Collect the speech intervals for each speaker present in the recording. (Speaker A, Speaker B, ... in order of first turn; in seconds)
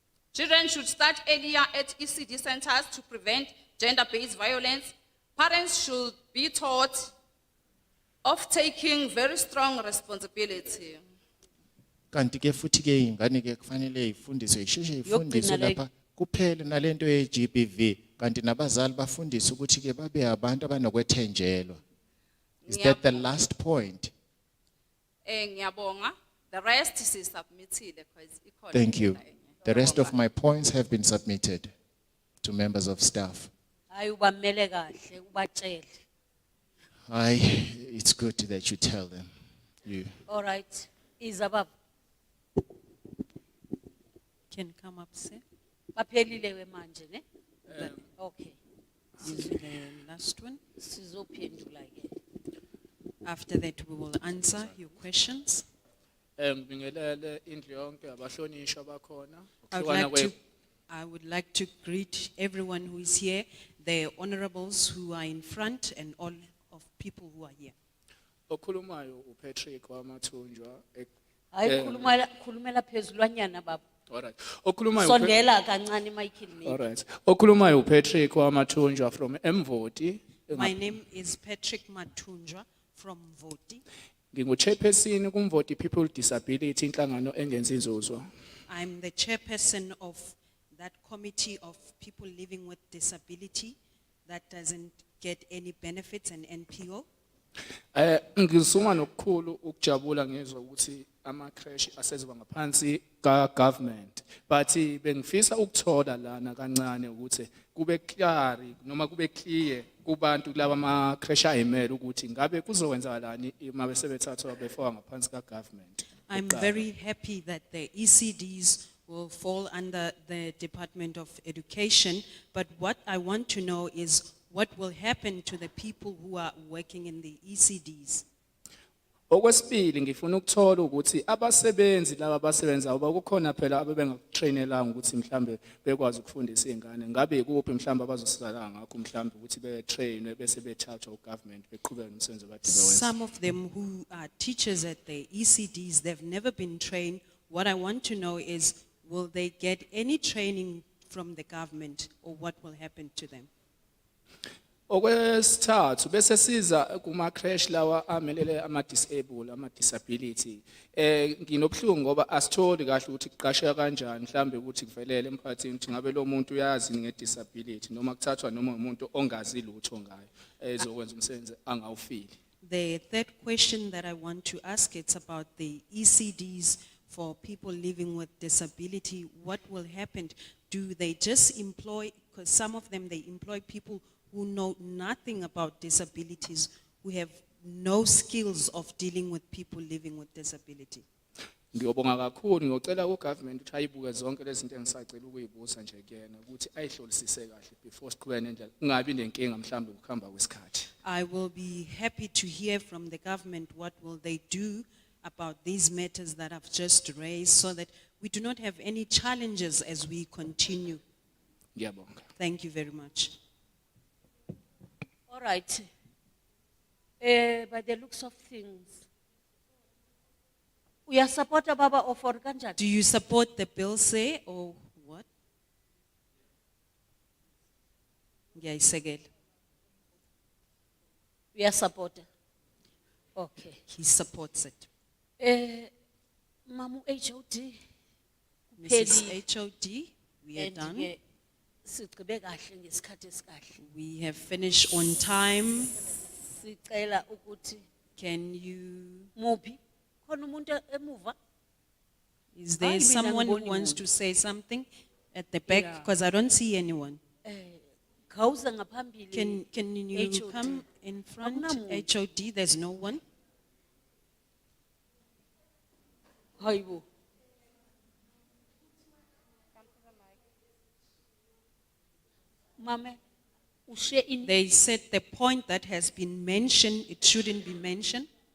Speaker A: 0.3-7.1, 8.2-11.0, 22.6-23.3, 25.2-30.1
Speaker B: 12.1-21.8, 22.7-24.1, 28.7-31.7, 32.4-33.5, 37.1-39.3, 39.8-40.1
Speaker C: 15.1-15.8, 33.9-36.0, 40.3-41.7, 46.0-47.2, 48.2-48.5, 50.8-52.1, 71.5-73.8, 75.0-76.8, 215.3-215.8, 217.2-219.0, 221.1-222.8, 231.5-232.2, 233.4-233.8, 235.4-235.9, 236.7-237.7, 238.9-239.3, 240.6-241.1, 241.8-243.7, 246.6-247.8, 249.4-251.3, 252.8-253.9, 255.7-256.1, 257.5-259.6, 260.1-260.8, 261.6-262.0, 266.6-267.0, 272.8-273.2, 273.9-274.5
Speaker D: 44.5-45.4, 49.2-50.6, 53.2-55.6, 59.7-60.4, 60.9-67.7, 80.5-83.8, 88.7-97.0, 116.3-128.2, 142.6-153.5, 172.6-191.0, 201.0-211.0, 212.4-213.3, 222.8-225.2, 228.5-229.3, 233.9-234.9, 238.8-241.1, 243.8-245.9, 248.2-249.3, 252.5-257.2, 259.3-263.2, 274.4-278.3
Speaker E: 47.7-48.1, 56.4-60.3, 68.5-71.1, 71.6-72.2, 74.1-75.5, 76.6-80.8, 84.3-88.3, 97.9-116.8, 129.3-143.1, 154.9-172.3, 191.7-200.9, 211.8-212.2